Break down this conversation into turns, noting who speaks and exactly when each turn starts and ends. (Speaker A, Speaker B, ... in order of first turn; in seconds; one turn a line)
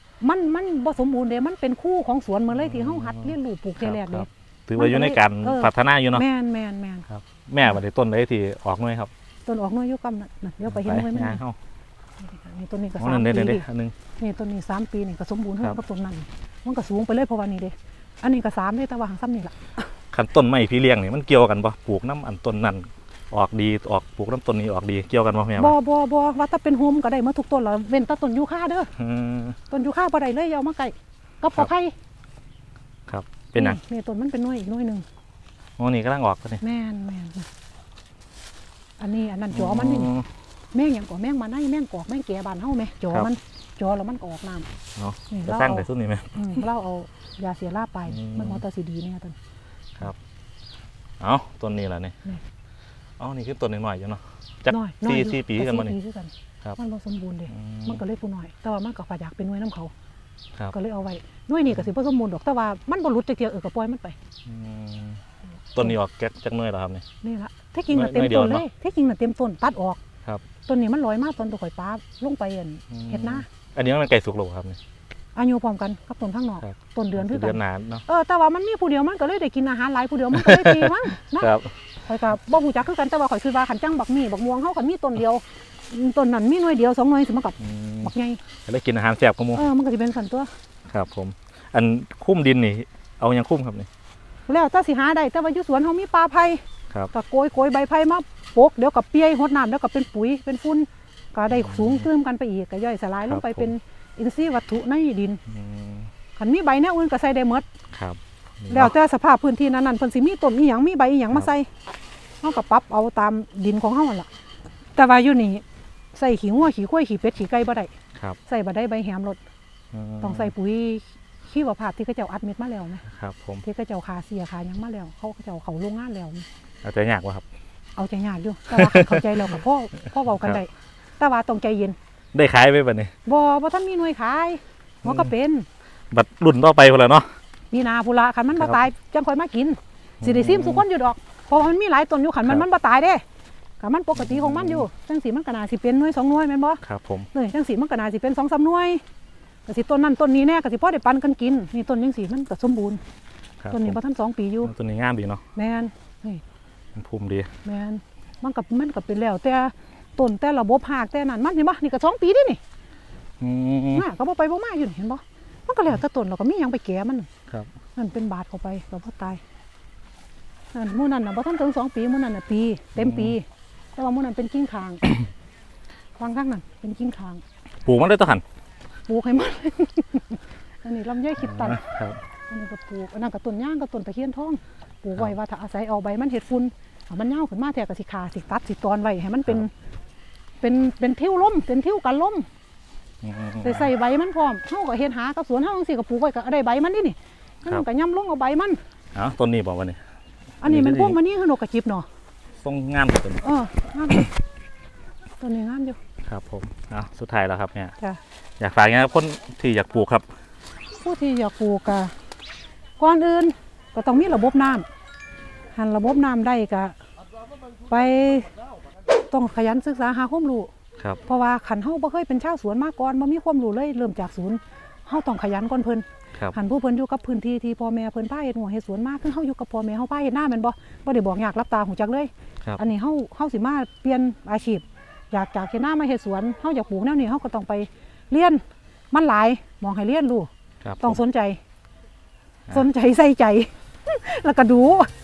Speaker A: 0.2-7.1
Speaker B: 2.5-6.2
Speaker B: 7.1-9.1
Speaker A: 9.5-11.4
Speaker B: 10.7-11.6
Speaker A: 12.2-13.6
Speaker B: 13.0-13.9
Speaker A: 14.2-19.7
Speaker B: 20.1-25.8
Speaker A: 25.6-28.9
Speaker B: 29.0-29.6
Speaker A: 29.7-31.9
Speaker B: 33.1-33.8
Speaker A: 33.5-35.0
Speaker B: 35.8-36.6
Speaker A: 36.6-37.5
Speaker A: 39.0-40.1
Speaker B: 39.5-40.3
Speaker A: 40.7-44.7
Speaker B: 45.0-46.6
Speaker A: 45.3-49.4
Speaker B: 48.1-48.6
Speaker B: 51.2-52.1
Speaker B: 53.2-56.0
Speaker A: 54.7-59.9
Speaker B: 57.5-58.0
Speaker A: 60.7-64.2
Speaker B: 64.5-65.2
Speaker B: 65.8-67.0
Speaker A: 67.2-70.0
Speaker B: 67.9-68.6
Speaker A: 70.7-73.5
Speaker B: 72.9-74.8
Speaker A: 75.3-81.5
Speaker B: 76.6-78.0
Speaker B: 80.3-81.7
Speaker A: 82.1-88.4
Speaker B: 87.6-88.1
Speaker B: 88.6-89.6
Speaker A: 89.5-90.5
Speaker B: 90.9-93.9
Speaker A: 94.5-105.4
Speaker B: 101.5-102.1
Speaker B: 103.3-103.7
Speaker B: 105.5-106.1
Speaker A: 106.4-107.7
Speaker B: 107.9-109.0
Speaker A: 108.7-111.7
Speaker A: 112.4-114.3
Speaker A: 115.0-115.6
Speaker A: 116.1-117.9
Speaker A: 118.5-119.4
Speaker B: 119.9-120.5
Speaker A: 120.2-123.0
Speaker B: 123.1-123.6
Speaker A: 123.6-126.5
Speaker B: 126.8-127.5
Speaker A: 128.0-132.0
Speaker B: 128.7-129.6
Speaker B: 130.3-130.6
Speaker B: 132.3-133.1
Speaker A: 133.2-135.7
Speaker B: 135.0-135.3
Speaker B: 136.1-137.3
Speaker A: 137.7-143.2
Speaker B: 138.5-138.8
Speaker B: 140.2-140.8
Speaker A: 143.8-146.8
Speaker B: 144.1-144.9
Speaker B: 146.8-147.3
Speaker A: 147.3-149.0
Speaker A: 149.7-153.0
Speaker B: 153.6-154.0
Speaker A: 153.7-154.7
Speaker B: 154.6-155.4
Speaker A: 155.5-156.4
Speaker B: 156.9-157.5
Speaker A: 157.6-162.6
Speaker B: 163.4-164.1
Speaker A: 163.9-167.3
Speaker A: 168.0-169.4
Speaker A: 170.7-175.1
Speaker B: 173.0-173.4
Speaker A: 176.2-177.4
Speaker B: 177.8-178.4
Speaker A: 179.1-181.8
Speaker B: 181.4-182.2
Speaker A: 182.5-189.7
Speaker A: 190.6-192.5
Speaker B: 193.2-193.9
Speaker A: 193.6-198.8
Speaker B: 199.1-200.0
Speaker A: 200.6-202.1
Speaker B: 200.6-201.2
Speaker B: 202.6-203.4
Speaker A: 203.4-204.3
Speaker A: 205.4-206.0
Speaker B: 206.2-207.9
Speaker B: 208.6-210.3
Speaker A: 210.9-212.1
Speaker A: 213.0-214.9
Speaker A: 215.8-217.0
Speaker A: 217.9-218.5
Speaker A: 219.3-220.7
Speaker A: 221.2-240.5
Speaker B: 240.8-241.2
Speaker A: 241.0-241.6
Speaker A: 242.7-245.1